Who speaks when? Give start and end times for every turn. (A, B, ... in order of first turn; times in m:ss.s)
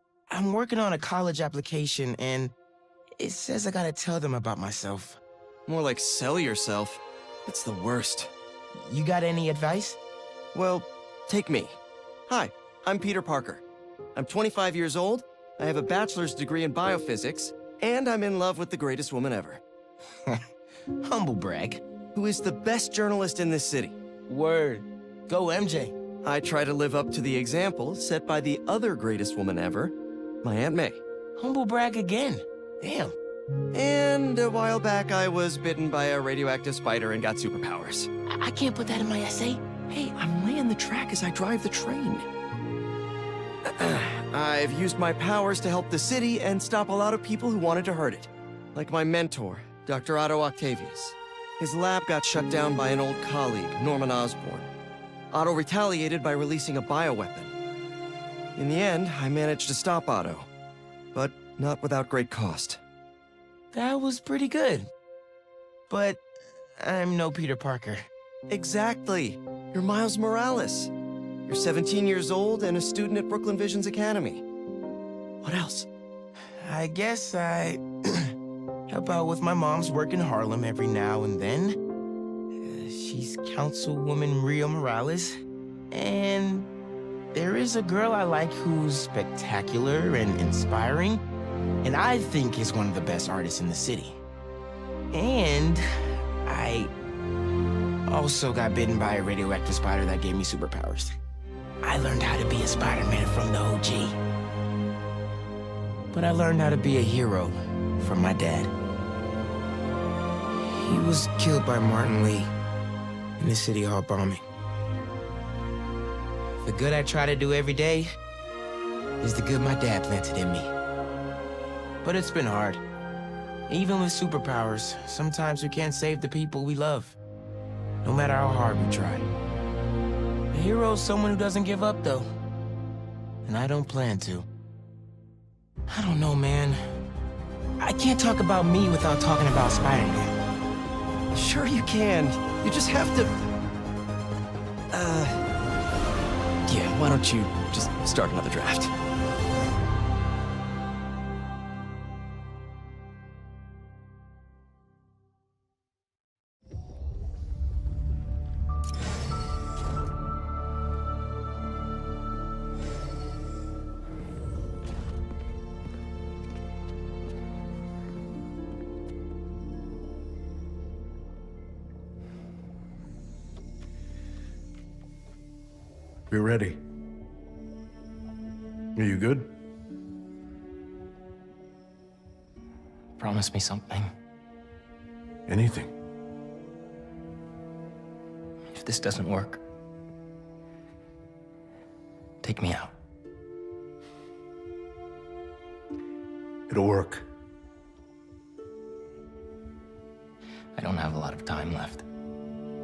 0:00.3-0:02.5 A
0:03.2-0:05.2 A
0:05.7-0:08.3 B
0:08.8-0:10.0 A
0:10.5-0:11.8 B
0:12.3-0:13.6 B
0:14.2-0:19.6 B
0:21.0-0:21.8 A
0:22.2-0:24.0 B
0:24.3-0:25.9 A
0:26.2-0:31.0 B
0:31.4-0:33.2 A
0:33.7-0:38.1 B
0:38.3-0:39.6 A
0:39.9-0:42.3 B
0:43.6-0:54.7 B
0:55.3-0:57.5 B
0:58.6-1:00.5 B
1:01.1-1:02.8 B
1:03.7-1:04.9 A
1:05.9-1:06.2 A
1:06.8-1:08.1 A
1:08.5-1:10.9 B
1:11.5-1:14.4 B
1:15.4-1:15.9 B
1:16.6-1:18.3 A
1:18.9-1:21.8 A
1:22.6-1:25.4 A
1:25.9-1:26.7 A
1:27.3-1:31.2 A
1:31.8-1:34.2 A
1:35.1-1:36.9 A
1:38.1-1:41.2 A
1:41.8-1:44.2 A
1:46.1-1:48.7 A
1:50.7-1:52.5 A
1:53.4-1:54.4 A
1:56.6-1:58.1 A
1:59.2-2:00.7 A
2:02.0-2:02.8 A
2:03.7-2:07.2 A
2:08.0-2:09.3 A
2:10.5-2:12.3 A
2:13.4-2:14.5 A
2:15.9-2:16.9 A
2:17.8-2:20.4 A
2:21.3-2:23.3 B
2:24.9-2:25.4 B
2:26.7-2:28.9 B
2:56.3-2:56.8 C
2:59.0-2:59.5 C
3:03.2-3:04.1 D
3:05.5-3:05.9 C
3:08.7-3:09.6 D
3:12.4-3:12.9 D
3:16.7-3:17.2 C
3:20.8-3:22.0 D